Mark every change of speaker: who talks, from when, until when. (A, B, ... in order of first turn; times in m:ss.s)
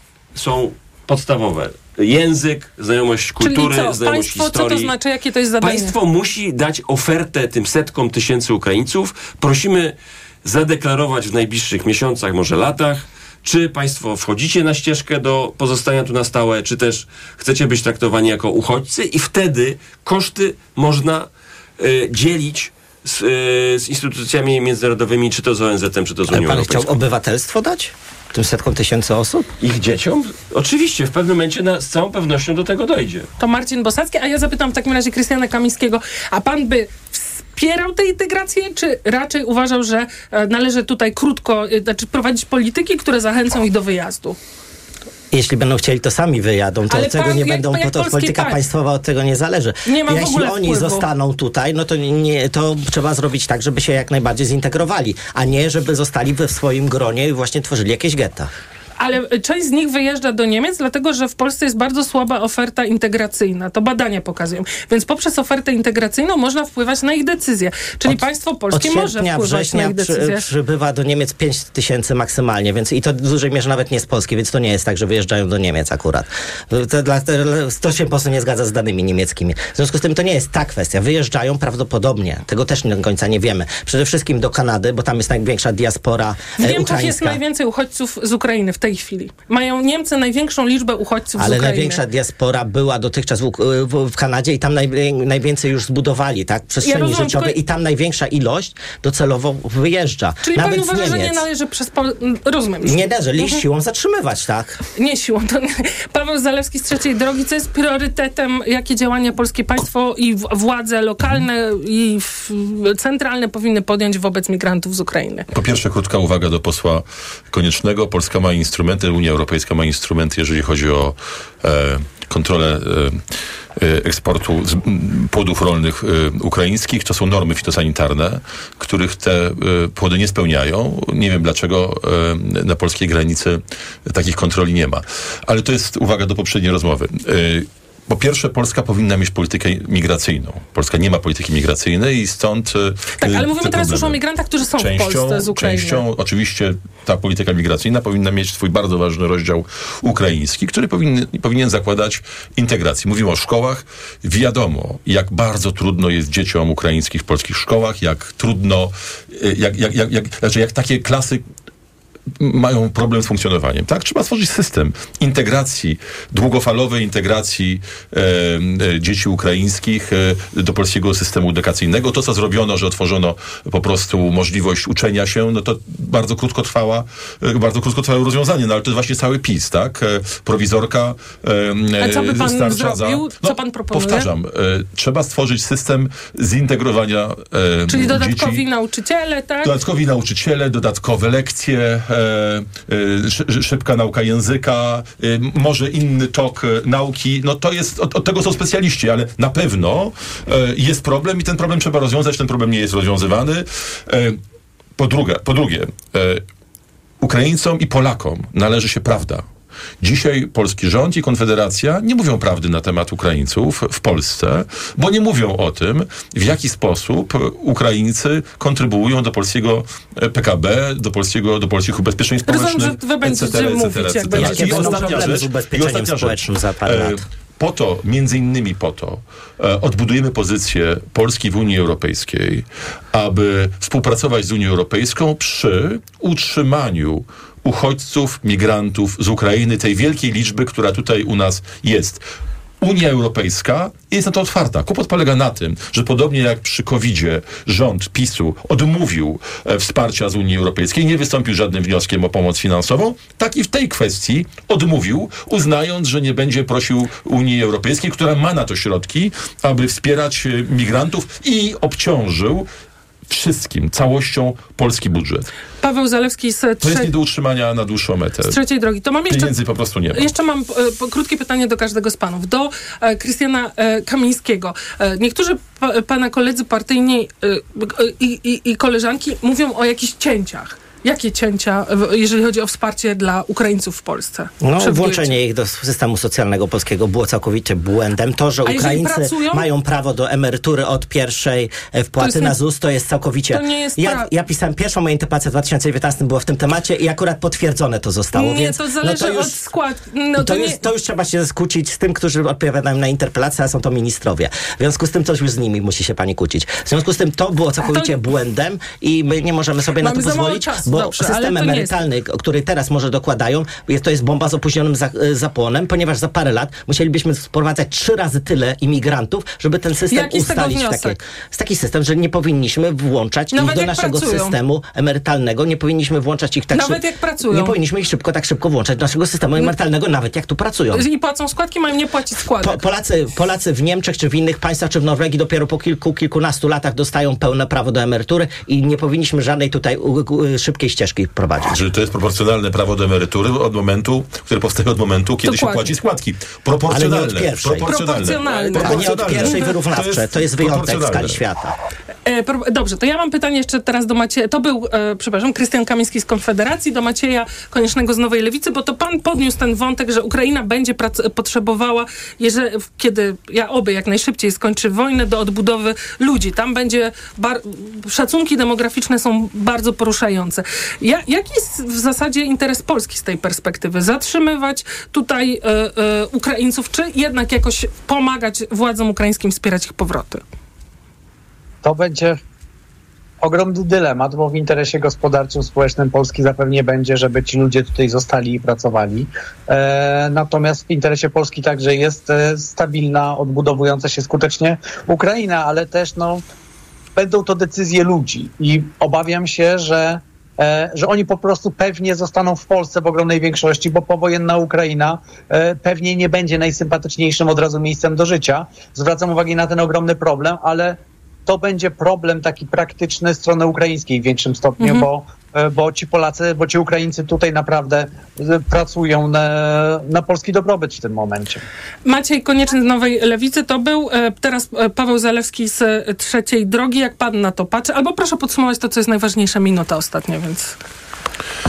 0:00.3-0:04.9 A
0:03.4-0:06.0 B
0:05.6-0:09.9 A
0:10.4-0:21.3 A
0:21.8-0:27.0 A
0:26.3-0:29.5 C
0:29.6-0:33.3 A
0:33.4-0:44.4 B
0:45.3-0:58.5 C
0:46.9-0:48.6 B
0:49.9-0:51.1 B
0:59.0-1:10.5 B
1:08.0-1:27.4 C
1:26.6-1:32.0 B
1:31.4-1:41.4 C
1:36.8-1:37.6 B
1:40.4-1:43.6 B
1:42.8-1:44.8 C
1:45.0-1:55.5 B
1:55.5-2:03.2 D
2:03.8-2:24.2 D
2:23.2-2:26.0 B
2:24.8-2:41.4 D
2:42.4-3:08.6 D
3:02.0-3:04.3 B
3:07.9-3:09.8 B
3:09.6-3:24.4 D
3:25.0-3:26.4 D
3:27.2-3:29.5 D
3:30.0-4:02.2 D
3:42.5-3:45.3 B
3:44.3-3:47.2 C
4:02.8-4:22.7 D
4:23.3-4:25.5 D
4:25.8-4:27.1 B
4:26.8-4:28.6 D
4:28.4-4:29.6 B
4:29.3-4:30.3 D
4:30.1-4:45.4 B
4:44.6-4:59.6 C
4:48.6-4:49.7 B
4:52.2-4:52.6 B
4:53.5-4:54.3 B
4:58.3-5:00.8 B
5:00.4-5:31.0 C
5:07.8-5:08.2 B
5:10.0-5:12.0 B
5:20.1-5:21.2 B
5:23.5-5:24.5 B
5:26.7-5:27.8 B
5:30.9-5:32.8 B
5:32.6-5:41.8 C
5:41.7-5:51.4 D
5:45.4-5:45.9 B
5:46.9-5:48.2 C
5:47.8-5:49.8 B
5:48.7-5:51.7 C
5:52.3-6:20.4 B
6:21.8-6:22.4 E
6:23.4-6:36.4 E
6:37.2-7:01.6 E
6:54.8-6:55.1 B
7:02.0-7:10.7 B